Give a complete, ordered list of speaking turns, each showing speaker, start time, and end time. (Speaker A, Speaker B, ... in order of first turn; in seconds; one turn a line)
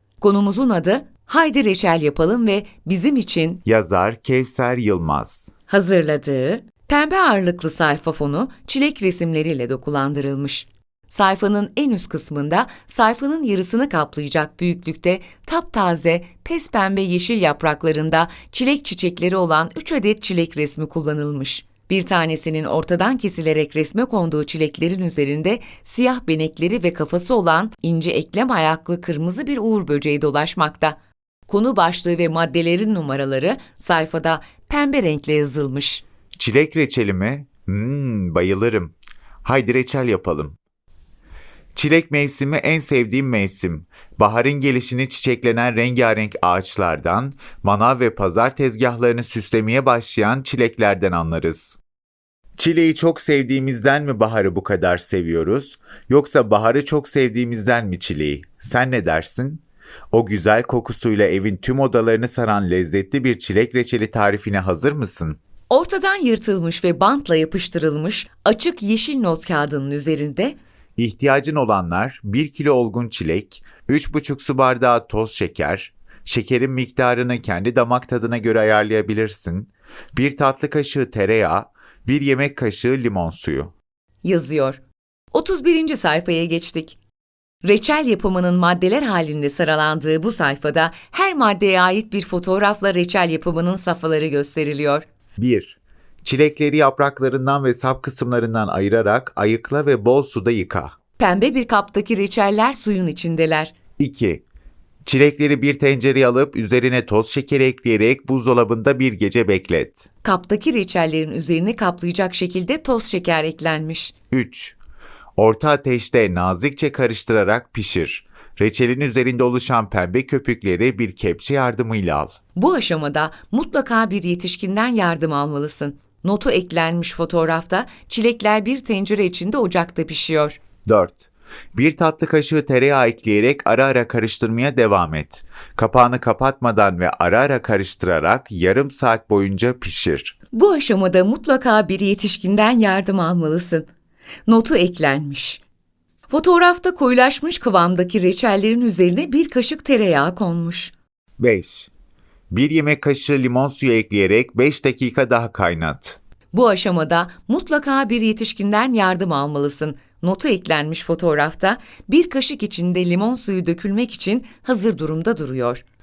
Speaker A: 0.2-3.6
Speaker B: 3.6-5.5
Speaker A: 5.7-31.0
Speaker A: 31.5-36.0
Speaker B: 36.4-40.5
Speaker B: 41.7-51.8
Speaker B: 52.6-65.4
Speaker A: 65.7-70.6
Speaker B: 71.0-83.7
Speaker A: 84.2-84.8
Speaker A: 85.3-87.0
Speaker A: 87.6-95.0
Speaker B: 95.4-100.9
Speaker A: 101.2-103.7
Speaker B: 104.0-104.4
Speaker B: 105.0-110.0
Speaker A: 110.2-114.1
Speaker B: 114.3-114.8
Speaker B: 115.4-122.3
Speaker A: 122.5-130.6
Speaker B: 130.8-140.3
Speaker A: 140.5-143.9
Speaker A: 144.4-145.6
Speaker A: 146.3-150.9
Speaker B: 151.4-151.9
Speaker B: 152.5-156.2
Speaker A: 156.5-165.8